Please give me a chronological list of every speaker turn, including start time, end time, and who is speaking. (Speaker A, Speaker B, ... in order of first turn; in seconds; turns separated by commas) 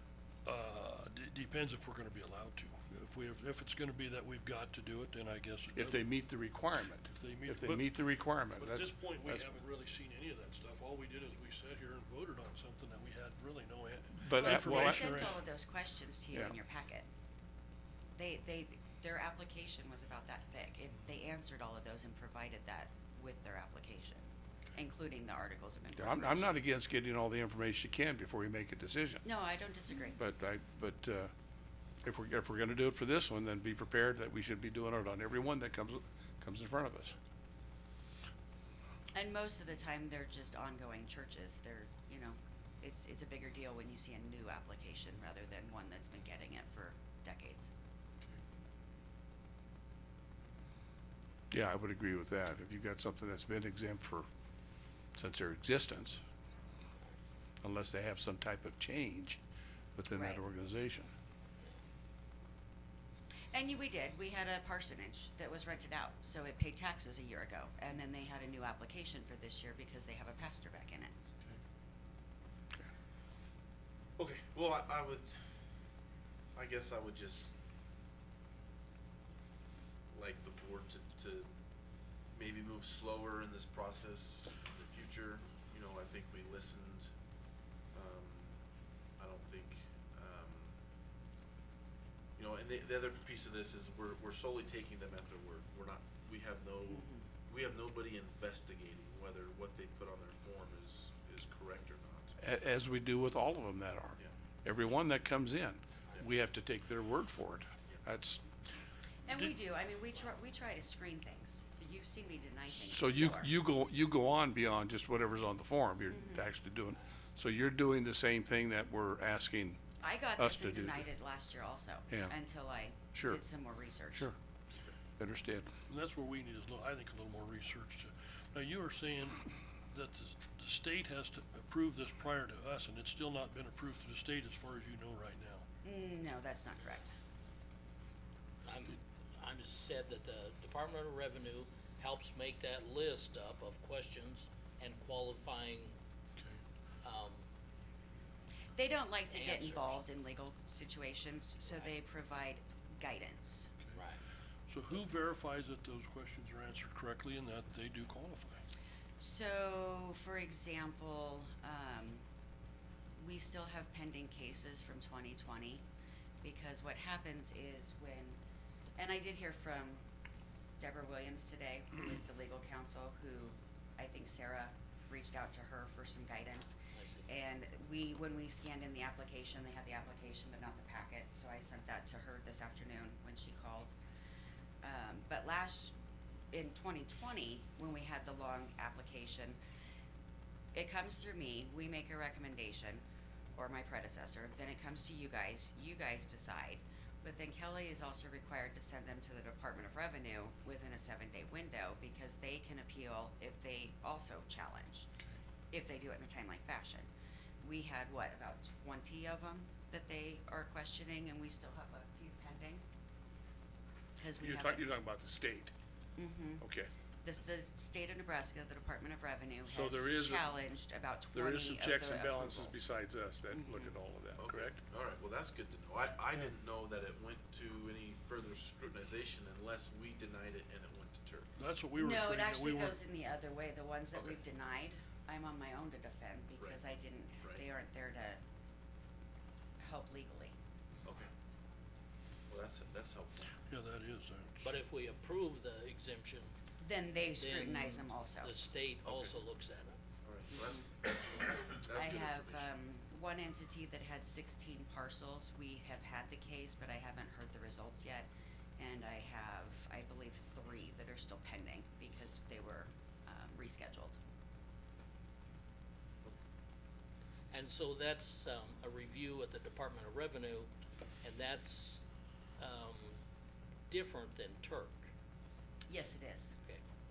Speaker A: 0.4-6.0, Speaker B: 5.7-9.5, Speaker A: 7.1-7.9, Speaker A: 8.6-15.4, Speaker B: 14.1-15.3, Speaker C: 14.4-17.1, Speaker C: 18.1-26.5, Speaker B: 25.9-29.2, Speaker C: 29.2-30.2, Speaker B: 30.1-31.3, Speaker B: 32.0-37.1, Speaker C: 39.1-47.7, Speaker B: 51.5-54.3, Speaker B: 55.1-56.2, Speaker B: 57.6-59.4, Speaker B: 60.0-61.1, Speaker C: 60.1-60.4, Speaker C: 63.5-71.2, Speaker D: 74.2-75.3, Speaker D: 76.5-77.5, Speaker D: 80.1-81.5, Speaker D: 82.3-87.1, Speaker D: 87.9-88.5, Speaker D: 89.2-90.7, Speaker D: 92.4-102.4, Speaker C: 96.9-97.3, Speaker B: 102.4-108.5, Speaker C: 109.2-113.5, Speaker B: 112.7-119.8, Speaker C: 116.1-116.5, Speaker C: 120.0-124.3, Speaker B: 120.4-121.1, Speaker B: 123.1-123.4, Speaker B: 125.2-125.7, Speaker A: 125.9-135.6, Speaker C: 135.8-137.1, Speaker E: 138.6-146.0, Speaker A: 146.4-146.6, Speaker E: 147.0-147.4, Speaker C: 148.7-153.7, Speaker E: 149.3-150.0, Speaker E: 153.9-154.2, Speaker A: 154.7-158.6, Speaker C: 159.2-162.2, Speaker C: 163.2-165.8, Speaker C: 166.4-168.4, Speaker C: 169.0-170.0, Speaker C: 170.8-183.9, Speaker E: 176.9-177.3, Speaker C: 184.8-185.9, Speaker C: 186.5-189.6, Speaker C: 190.7-193.0, Speaker C: 193.5-205.1, Speaker C: 205.7-207.1, Speaker C: 207.6-212.8, Speaker C: 214.2-214.9, Speaker B: 214.4-215.7, Speaker C: 216.2-216.6, Speaker B: 216.6-216.9, Speaker C: 217.2-222.8, Speaker B: 219.6-220.5, Speaker B: 221.3-224.8, Speaker D: 224.4-231.5, Speaker A: 231.6-233.0, Speaker C: 231.9-238.4, Speaker D: 234.1-234.4, Speaker C: 239.8-240.5, Speaker D: 241.0-241.3, Speaker D: 242.5-243.5, Speaker A: 243.7-244.8, Speaker E: 244.6-246.5, Speaker C: 246.8-248.5, Speaker E: 247.4-250.0, Speaker D: 249.0-249.3, Speaker D: 250.2-252.7, Speaker C: 250.5-250.9, Speaker C: 251.8-264.2, Speaker E: 267.5-270.7, Speaker E: 271.2-272.0, Speaker E: 272.6-273.2, Speaker E: 273.9-275.1, Speaker C: 275.9-276.6